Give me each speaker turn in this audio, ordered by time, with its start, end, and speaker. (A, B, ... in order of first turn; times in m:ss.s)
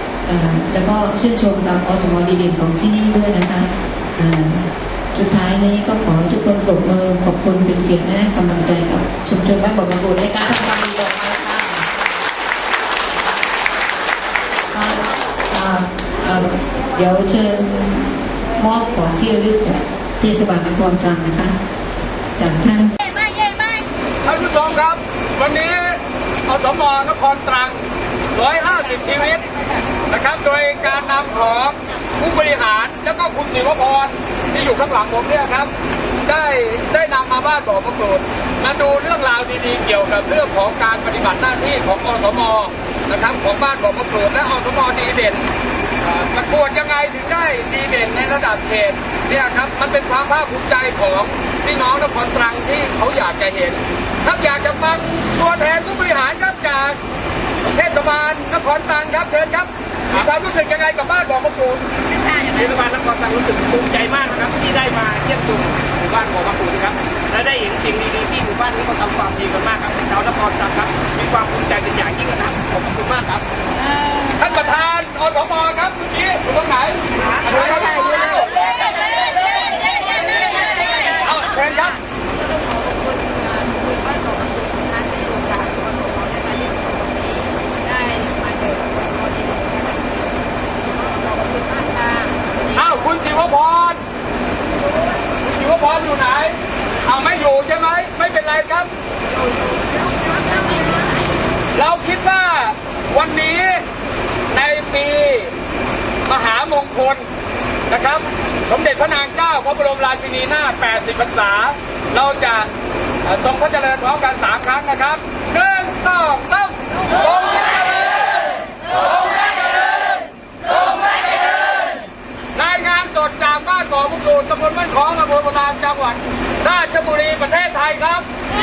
0:00.2-0:11.9 A
0:14.7-0:21.6 A
0:22.4-0:22.9 A
0:24.2-0:27.8 B
0:28.3-0:29.4 B
0:30.1-0:35.7 B
0:36.2-0:45.5 B
0:46.0-0:57.0 B
0:57.7-1:01.8 B
1:02.5-1:13.4 C
1:14.3-1:22.0 B
1:24.8-1:26.2 A
1:27.9-1:29.7 A
1:32.7-1:34.0 B
1:35.4-1:38.9 B
1:41.7-1:43.8 B
1:44.5-1:45.5 B
1:46.3-1:47.3 B
1:47.9-1:52.7 B
1:53.2-2:02.0 B
2:02.6-2:08.2 B